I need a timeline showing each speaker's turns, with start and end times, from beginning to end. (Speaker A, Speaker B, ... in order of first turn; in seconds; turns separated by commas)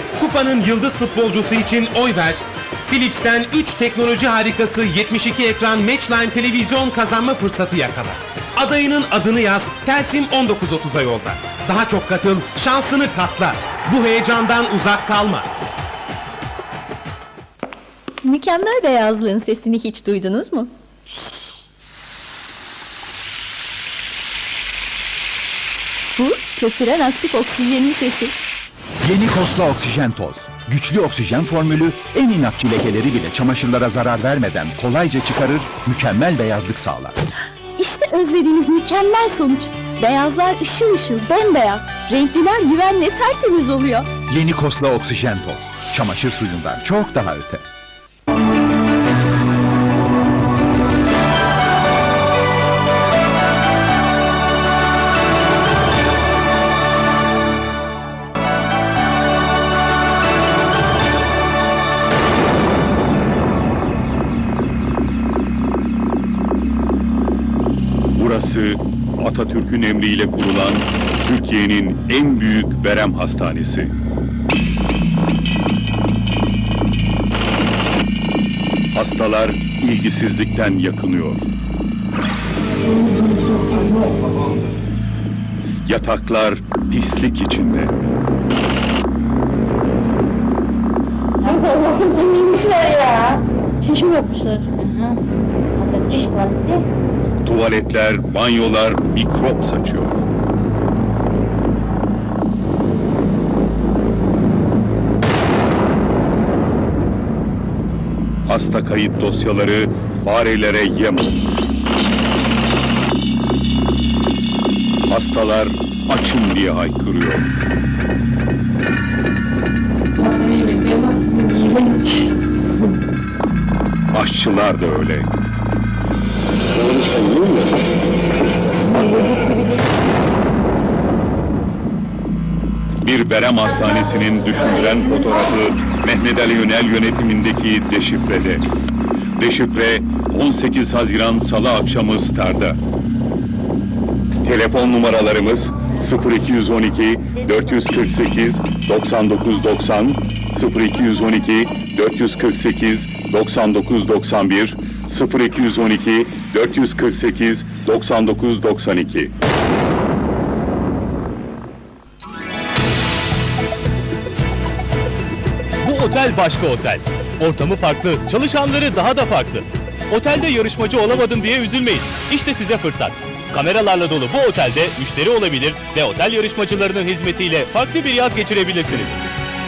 Speaker A: 0.2-15.5, Speaker B: 18.2-21.5, Speaker B: 26.2-28.3, Speaker C: 29.0-37.2, Speaker B: 37.8-44.1, Speaker C: 44.3-47.7, Speaker D: 68.2-73.9, Speaker D: 78.9-81.5, Speaker D: 85.8-88.0, Speaker E: 91.4-93.3, Speaker E: 93.8-95.2, Speaker E: 95.8-96.8, Speaker D: 97.4-100.2, Speaker D: 108.5-111.7, Speaker D: 115.1-117.5, Speaker D: 124.1-125.3, Speaker D: 126.8-127.8, Speaker D: 133.0-138.7, Speaker D: 139.4-142.8, Speaker D: 144.4-159.3, Speaker F: 165.8-179.2